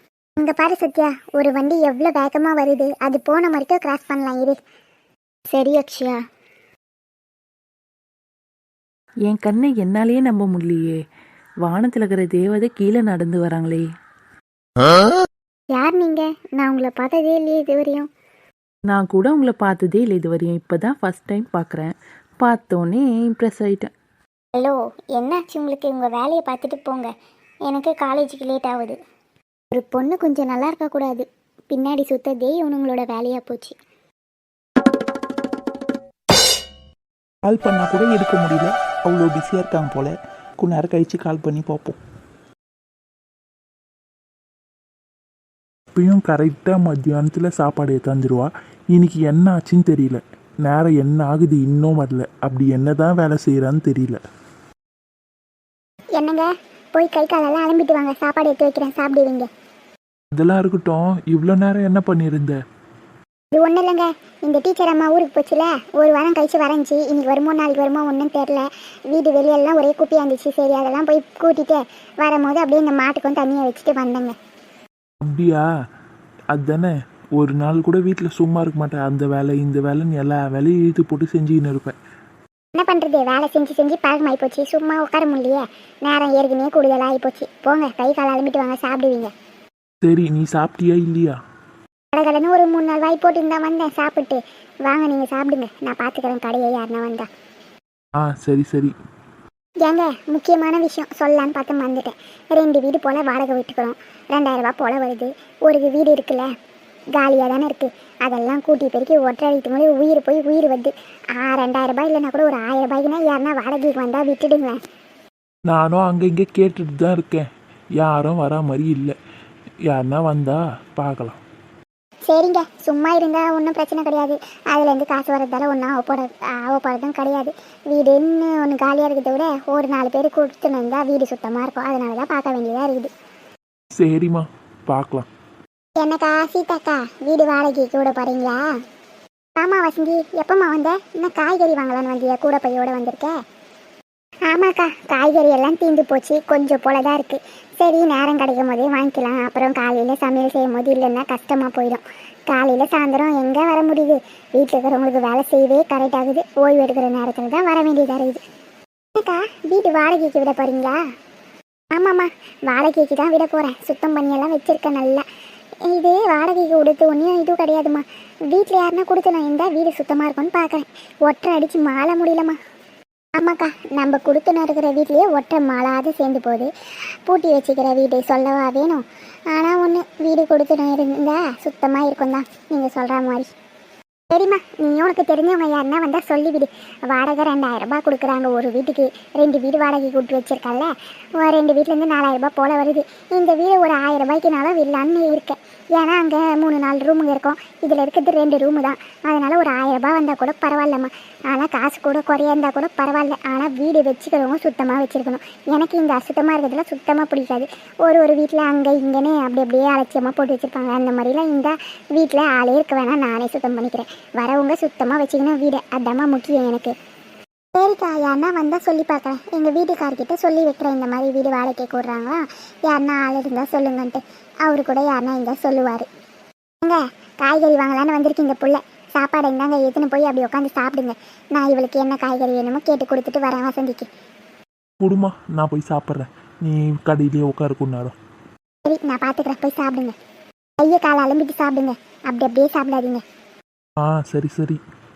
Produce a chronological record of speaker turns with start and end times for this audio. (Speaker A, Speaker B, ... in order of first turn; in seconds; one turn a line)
Speaker A: 0.4-4.6
Speaker A: 5.5-6.2
Speaker B: 9.3-11.0
Speaker B: 11.6-13.8
Speaker A: 15.7-18.1
Speaker B: 18.9-23.9
Speaker A: 24.5-27.1
Speaker A: 27.7-28.9
Speaker A: 29.7-33.7
Speaker C: 37.5-42.0
Speaker C: 45.9-54.2
Speaker A: 56.1-59.5
Speaker C: 60.3-62.6
Speaker A: 63.5-74.3
Speaker C: 75.2-75.7
Speaker C: 76.5-81.9
Speaker A: 82.7-89.3
Speaker C: 90.0-91.3
Speaker A: 92.1-97.3
Speaker C: 98.2-98.9
Speaker A: 99.8-106.5
Speaker A: 107.1-114.8
Speaker C: 115.7-117.5
Speaker C: 118.0-119.1
Speaker C: 119.9-121.4
Speaker A: 122.3-133.1
Speaker C: 133.9-135.3
Speaker A: 136.0-138.6
Speaker A: 139.6-143.3
Speaker A: 144.5-158.4
Speaker A: 159.1-161.0
Speaker A: 161.9-165.2
Speaker A: 165.9-172.6
Speaker A: 173.3-176.7
Speaker A: 177.2-183.5
Speaker A: 184.3-216.9
Speaker A: 217.7-226.1
Speaker A: 226.8-234.1
Speaker C: 235.0-238.1
Speaker A: 238.8-240.1
Speaker A: 240.8-243.2
Speaker C: 244.0-244.8